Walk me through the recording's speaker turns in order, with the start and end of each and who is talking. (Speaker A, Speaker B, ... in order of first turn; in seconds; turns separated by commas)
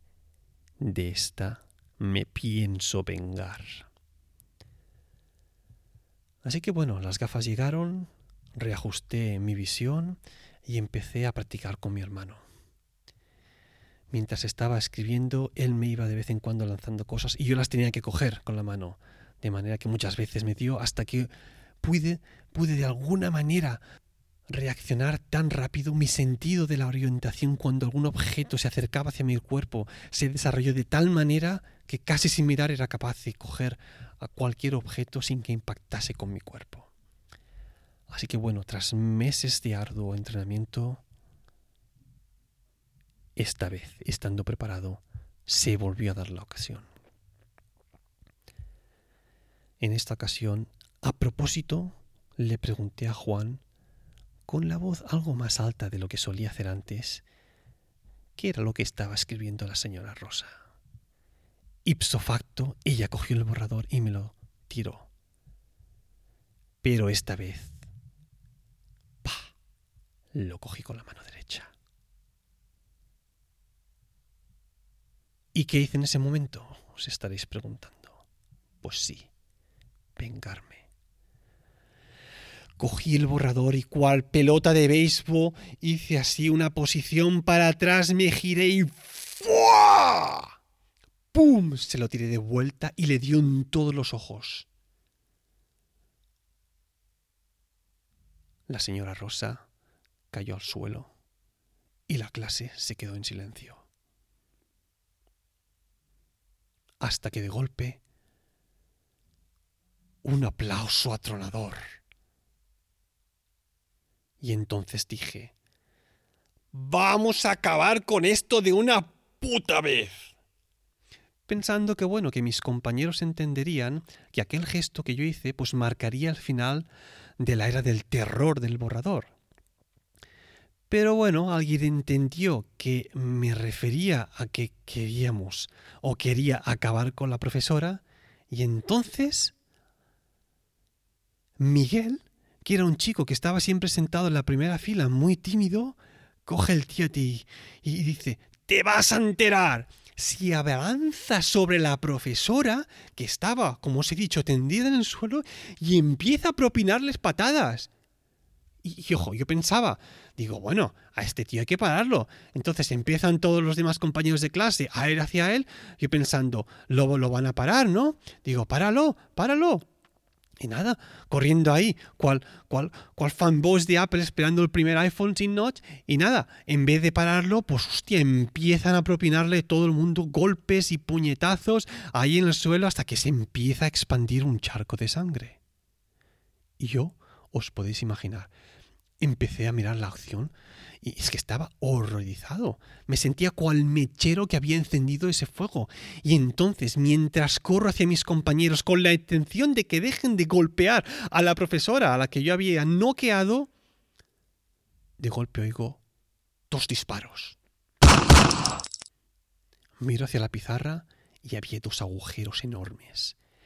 Speaker A: 0.8-3.9, Speaker A: 6.4-12.4, Speaker A: 14.1-21.3, Speaker A: 21.8-23.8, Speaker A: 24.5-36.9, Speaker A: 38.1-41.0, Speaker A: 43.4-46.9, Speaker A: 49.8-53.6, Speaker A: 54.5-57.2, Speaker A: 58.4-60.6, Speaker A: 61.9-65.1, Speaker A: 66.8-67.8, Speaker A: 69.2-69.5, Speaker A: 70.3-71.7, Speaker A: 75.5-78.2, Speaker A: 78.8-79.3, Speaker A: 80.2-80.9, Speaker A: 82.8-90.5, Speaker A: 91.3-94.7, Speaker A: 98.7-99.7, Speaker A: 100.3-101.1, Speaker A: 102.1-103.8, Speaker A: 107.0-108.0, Speaker A: 110.2-112.0, Speaker A: 114.4-115.5, Speaker A: 116.7-120.3, Speaker A: 121.5-126.9, Speaker A: 127.4-129.3, Speaker A: 130.9-139.5, Speaker A: 141.6-157.9, Speaker A: 158.8-169.8, Speaker A: 170.6-185.6, Speaker A: 186.8-188.5, Speaker A: 189.2-203.7, Speaker A: 205.2-206.0, Speaker A: 206.7-207.6, Speaker A: 210.0-213.4